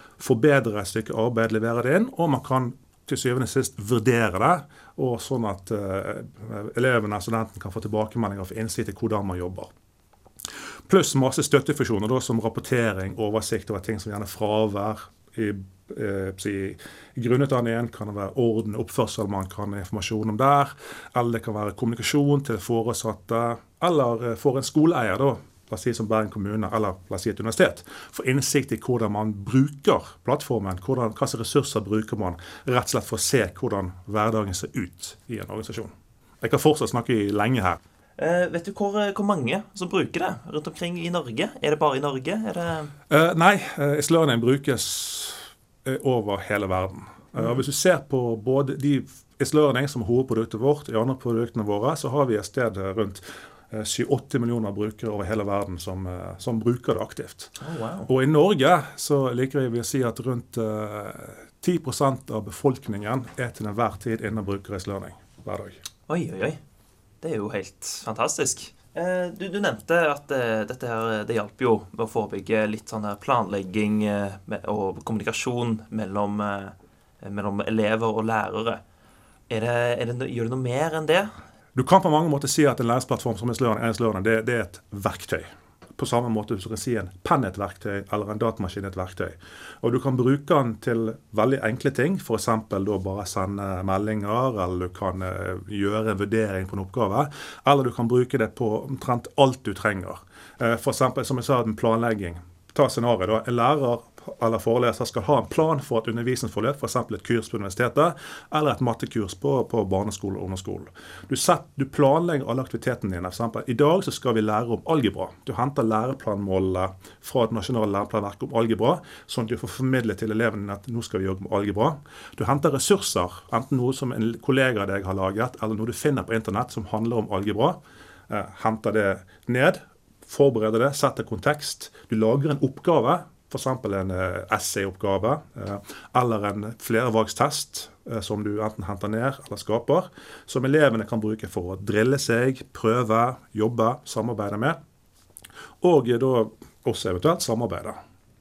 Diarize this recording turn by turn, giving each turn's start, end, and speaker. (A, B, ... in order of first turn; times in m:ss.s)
0:00.2-0:09.7 A
0:10.9-0:37.8 A
0:38.2-0:42.9 B
0:43.1-0:57.5 A
0:57.6-0:58.1 B
0:58.0-1:05.8 A
1:06.1-1:06.6 B
1:07.2-1:18.8 B
1:19.5-1:21.3 B
1:21.7-2:24.8 A
2:25.8-2:28.0 A